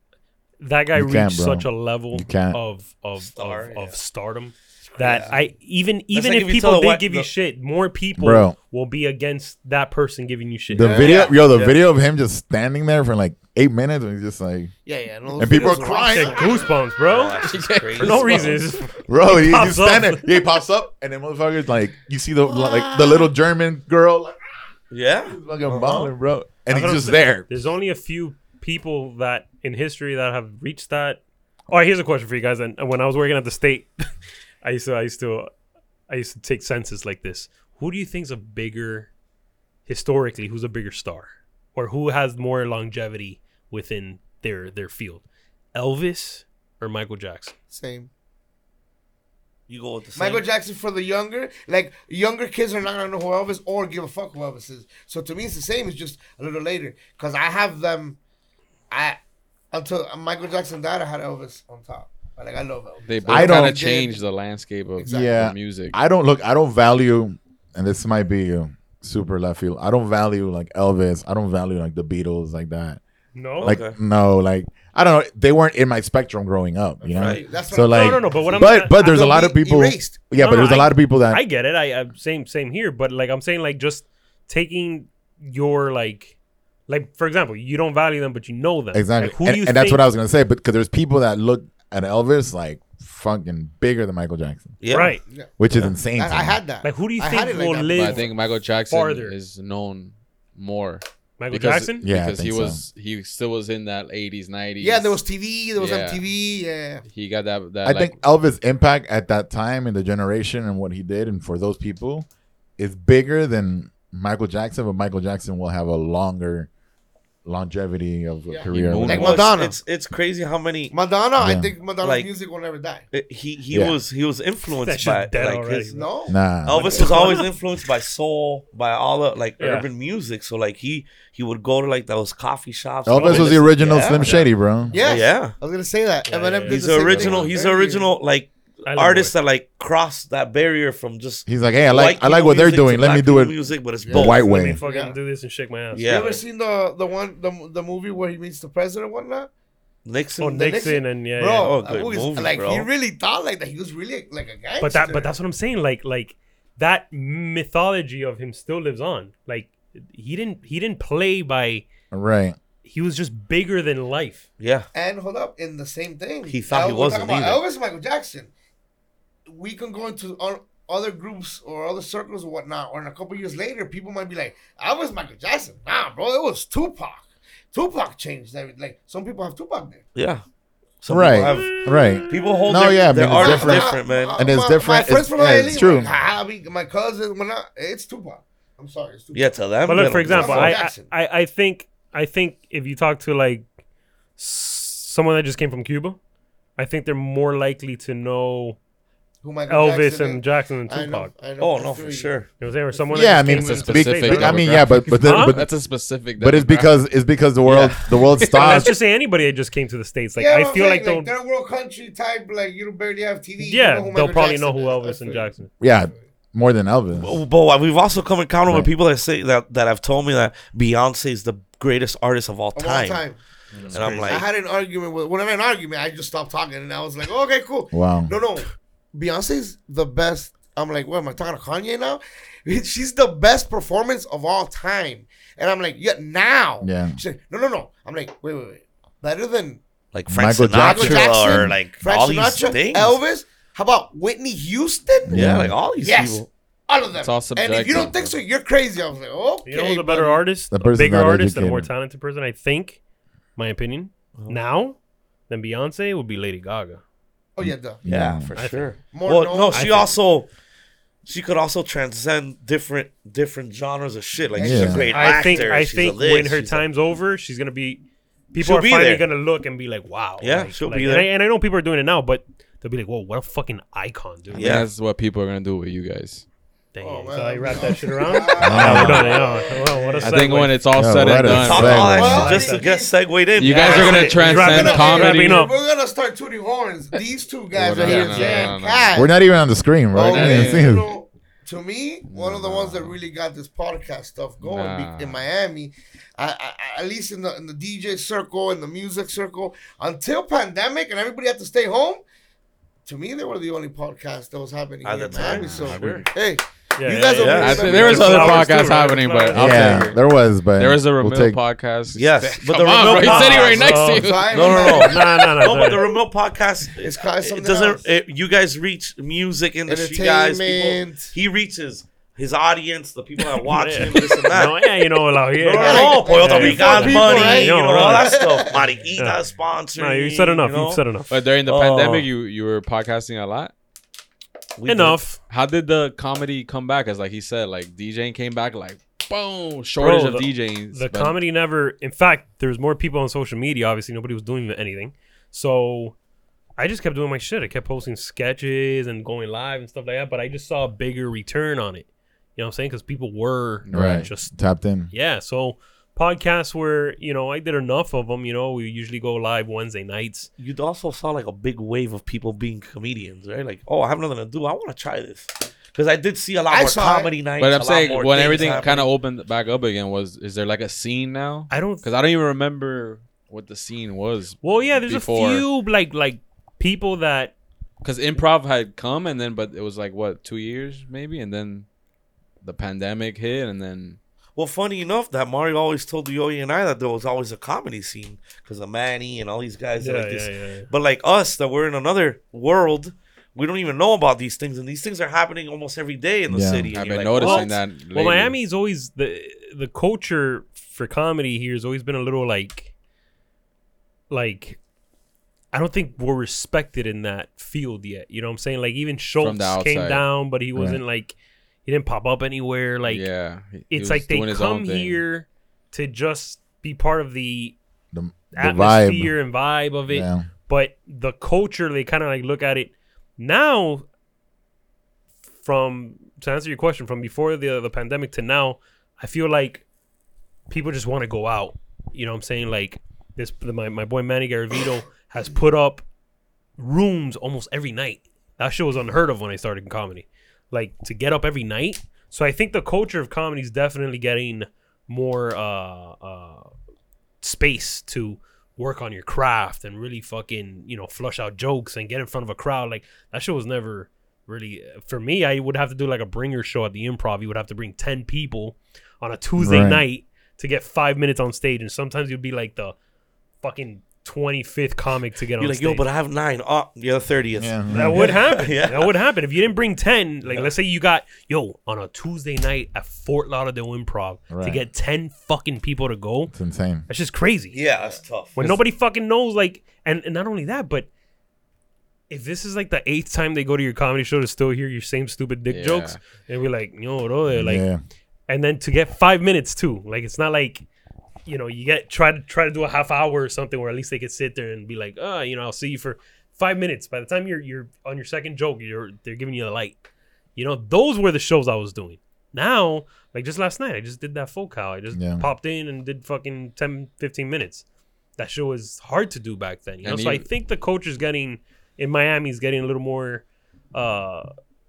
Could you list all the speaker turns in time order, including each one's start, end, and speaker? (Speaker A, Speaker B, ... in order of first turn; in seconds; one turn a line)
Speaker A: 0.6-11.1
Speaker B: 0.9-2.6
Speaker C: 3.2-4.0
Speaker C: 4.9-5.3
Speaker C: 6.1-7.3
Speaker B: 8.2-8.6
Speaker B: 10.7-14.7
Speaker D: 10.7-11.3
Speaker C: 11.0-11.8
Speaker D: 14.8-16.8
Speaker B: 15.3-16.4
Speaker A: 16.1-17.4
Speaker C: 17.0-18.6
Speaker E: 17.4-18.4
Speaker A: 18.0-20.3
Speaker B: 19.1-24.4
Speaker C: 24.9-26.1
Speaker B: 25.3-27.5
Speaker A: 26.7-34.0
Speaker A: 34.6-35.5
Speaker A: 36.1-39.1
Speaker A: 39.9-45.2
Speaker A: 45.7-47.5
Speaker D: 47.7-48.1
Speaker C: 49.7-50.4
Speaker D: 50.1-58.2
Speaker D: 58.9-59.2
Speaker D: 59.7-64.2
Speaker E: 63.0-66.0
Speaker B: 63.3-63.8
Speaker D: 65.0-65.4
Speaker B: 65.1-73.0
Speaker A: 73.3-73.8
Speaker C: 73.6-74.0
Speaker B: 73.6-81.4
Speaker D: 77.0-80.3
Speaker C: 77.2-77.5
Speaker A: 77.9-78.9
Speaker A: 80.3-86.3
Speaker A: 86.9-90.0
Speaker B: 88.9-94.8
Speaker C: 94.8-95.2
Speaker A: 94.9-95.2
Speaker D: 95.2-98.3
Speaker B: 95.6-96.6
Speaker A: 96.8-99.3
Speaker E: 97.9-105.2
Speaker A: 101.4-102.0
Speaker B: 102.0-102.8
Speaker D: 104.8-107.0
Speaker E: 105.8-106.2
Speaker E: 107.1-108.2
Speaker B: 107.8-112.2
Speaker B: 112.8-116.7
Speaker B: 117.4-119.4
Speaker D: 118.5-119.8
Speaker E: 118.7-119.4
Speaker C: 119.1-120.9
Speaker D: 120.9-123.1
Speaker B: 121.4-121.7
Speaker C: 122.0-122.3
Speaker C: 123.1-125.9
Speaker A: 124.8-126.1
Speaker D: 125.9-126.4
Speaker B: 126.3-127.1
Speaker C: 126.6-134.5
Speaker A: 126.8-127.5
Speaker A: 129.6-129.9
Speaker B: 133.1-134.9
Speaker A: 133.1-133.6
Speaker D: 134.9-138.1
Speaker C: 135.0-135.6
Speaker A: 136.2-136.9
Speaker C: 136.6-144.4
Speaker E: 137.1-137.5
Speaker A: 138.8-139.3
Speaker B: 141.4-144.8
Speaker D: 144.0-145.2
Speaker A: 144.3-146.2
Speaker C: 145.9-146.4
Speaker D: 146.1-149.5
Speaker C: 150.0-150.6
Speaker A: 150.4-151.8
Speaker D: 150.4-155.3
Speaker C: 151.5-152.9
Speaker A: 154.8-161.8
Speaker B: 162.1-162.6
Speaker A: 162.8-164.4
Speaker C: 164.6-164.9
Speaker D: 164.9-168.5
Speaker C: 166.5-167.6
Speaker D: 169.5-180.0
Speaker C: 180.1-180.4
Speaker C: 181.0-184.4
Speaker B: 181.1-186.1
Speaker D: 183.2-191.1
Speaker C: 189.3-190.8
Speaker A: 189.8-193.7
Speaker A: 194.4-196.2
Speaker A: 196.8-198.8
Speaker D: 199.4-202.3
Speaker A: 199.7-201.3
Speaker C: 201.6-202.5
Speaker A: 202.6-204.5
Speaker D: 202.9-204.8
Speaker B: 203.1-205.8
Speaker E: 203.5-207.0
Speaker A: 205.2-205.6
Speaker B: 206.4-209.0
Speaker E: 207.6-208.9
Speaker A: 208.6-211.3
Speaker D: 210.3-216.2
Speaker A: 213.6-215.7
Speaker B: 215.8-217.4
Speaker C: 217.2-223.2
Speaker D: 222.7-223.4
Speaker E: 223.7-224.0
Speaker A: 223.7-224.3
Speaker C: 223.9-224.5
Speaker D: 224.0-239.8
Speaker B: 227.9-228.3
Speaker B: 236.8-237.2
Speaker C: 240.1-243.2
Speaker B: 240.3-241.8
Speaker D: 240.8-250.4
Speaker B: 245.3-245.7
Speaker C: 245.3-246.5
Speaker E: 247.1-248.4
Speaker A: 249.7-253.0
Speaker B: 250.7-251.9
Speaker A: 253.6-254.9
Speaker A: 255.5-257.0
Speaker D: 257.6-258.0
Speaker B: 257.6-258.5
Speaker C: 258.0-260.5
Speaker A: 258.5-258.9
Speaker D: 259.0-260.1
Speaker A: 259.7-260.1
Speaker C: 261.2-266.9
Speaker D: 264.5-265.7
Speaker B: 264.6-265.1
Speaker A: 265.1-274.8
Speaker C: 268.6-269.2
Speaker C: 270.4-271.3
Speaker C: 274.5-274.9
Speaker E: 274.5-276.4
Speaker A: 276.9-280.8
Speaker D: 277.0-280.4
Speaker C: 278.3-279.6
Speaker B: 278.6-279.3
Speaker E: 280.2-282.2
Speaker B: 280.9-282.5
Speaker C: 281.5-285.0
Speaker D: 281.7-289.4
Speaker A: 282.1-282.9
Speaker E: 283.6-285.7
Speaker A: 283.8-285.7
Speaker E: 287.7-289.2
Speaker C: 288.1-288.6
Speaker A: 288.3-288.7
Speaker B: 289.1-291.1
Speaker D: 290.1-302.2
Speaker E: 290.2-291.0
Speaker E: 292.3-293.1
Speaker E: 294.6-295.4
Speaker D: 303.0-308.9
Speaker C: 305.0-306.2
Speaker E: 305.4-306.2
Speaker A: 307.0-310.1
Speaker C: 307.3-308.8
Speaker E: 307.4-310.2
Speaker B: 309.5-311.6
Speaker E: 310.7-315.5
Speaker C: 312.1-331.0
Speaker D: 313.1-315.9
Speaker A: 313.7-316.1
Speaker D: 317.0-318.1
Speaker D: 319.9-321.4
Speaker A: 323.7-328.3
Speaker D: 325.7-329.1
Speaker A: 329.1-331.3
Speaker E: 331.3-333.7
Speaker C: 331.7-332.3
Speaker C: 334.8-335.2
Speaker A: 334.9-335.4
Speaker E: 335.4-341.4
Speaker A: 340.0-346.1
Speaker A: 346.8-354.5
Speaker E: 353.8-354.3
Speaker B: 353.9-355.1
Speaker A: 355.1-360.5
Speaker C: 360.6-369.1
Speaker D: 366.7-367.3
Speaker E: 367.6-375.6
Speaker A: 371.7-372.1
Speaker A: 374.6-377.5
Speaker E: 378.0-381.9
Speaker E: 382.6-384.2
Speaker C: 384.6-397.7
Speaker A: 390.0-390.9
Speaker B: 396.5-396.9
Speaker E: 396.9-398.6
Speaker A: 397.4-402.9
Speaker A: 404.3-404.8
Speaker A: 405.7-411.3
Speaker E: 409.4-410.3
Speaker B: 410.7-411.0
Speaker A: 411.9-413.3
Speaker E: 413.1-415.2
Speaker A: 413.9-417.8
Speaker B: 418.1-419.3
Speaker A: 418.5-424.0
Speaker B: 420.1-420.5
Speaker A: 425.6-429.8
Speaker A: 430.7-436.0
Speaker A: 436.8-446.7
Speaker A: 447.4-462.9
Speaker B: 459.6-460.0
Speaker A: 463.6-466.1
Speaker C: 465.6-469.1
Speaker B: 467.6-468.3
Speaker A: 467.9-476.5
Speaker B: 474.5-474.8
Speaker B: 476.5-477.1
Speaker A: 477.1-477.8
Speaker C: 477.7-478.8
Speaker A: 478.5-481.1
Speaker A: 482.3-487.9
Speaker E: 485.7-486.2
Speaker B: 487.5-488.0
Speaker A: 488.5-490.8
Speaker A: 491.4-500.0
Speaker A: 500.6-507.8
Speaker B: 505.1-505.5
Speaker A: 508.4-514.5
Speaker E: 510.0-510.4